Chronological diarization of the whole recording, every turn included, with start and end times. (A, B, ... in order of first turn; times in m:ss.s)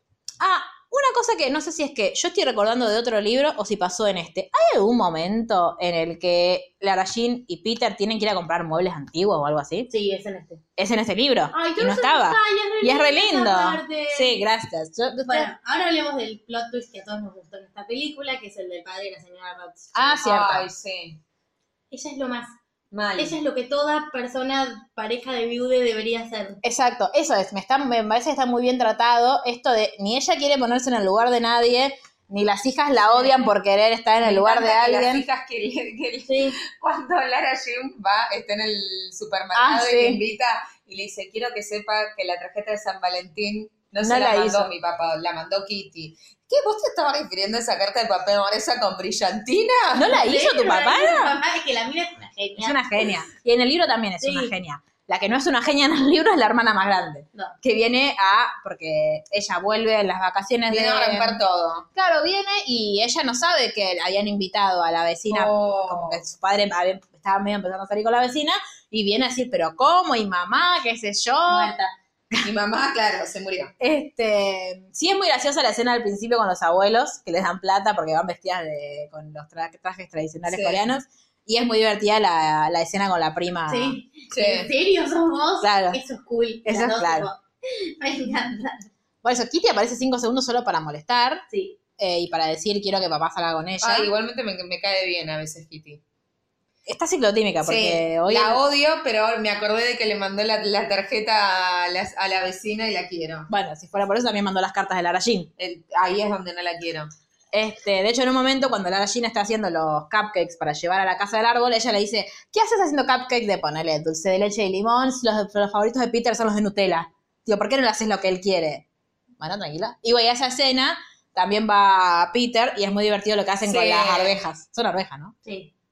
0:00.4-0:09.9 A
0:09.9-0:10.6 B
0:10.8-0:15.5 A
0:11.5-0:14.4 B
0:15.3-0:20.2 B
0:20.0-0:20.7 A
0:20.2-0:21.2 C
0:21.9-0:22.6 B
0:22.9-0:23.4 C
0:23.2-0:26.6 B
0:26.6-0:35.3 A
0:33.1-0:33.4 B
0:34.2-0:50.1 C
0:36.3-0:36.6 B
0:39.6-0:40.2 A
0:44.0-0:44.7 A
0:49.9-0:51.4 A
0:50.0-0:52.9 B
0:52.6-1:01.4 A
0:54.2-0:54.5 B
1:00.7-1:01.8 C
1:02.0-1:11.7 A
1:05.3-1:06.2 C
1:11.5-1:11.9 B
1:12.4-1:13.7 C
1:13.8-1:24.0 A
1:20.5-1:20.9 C
1:23.7-1:28.8 B
1:24.3-1:24.7 C
1:25.6-1:26.0 A
1:26.6-1:27.3 A
1:29.2-1:31.4 A
1:31.5-1:31.8 B
1:32.0-1:34.1 A
1:33.8-1:36.0 C
1:36.9-1:38.6 A
1:37.6-1:43.5 C
1:43.5-1:45.5 A
1:45.6-1:47.1 C
1:47.5-1:58.8 A
1:59.4-2:05.3 A
2:03.6-2:04.4 C
2:05.4-2:05.7 B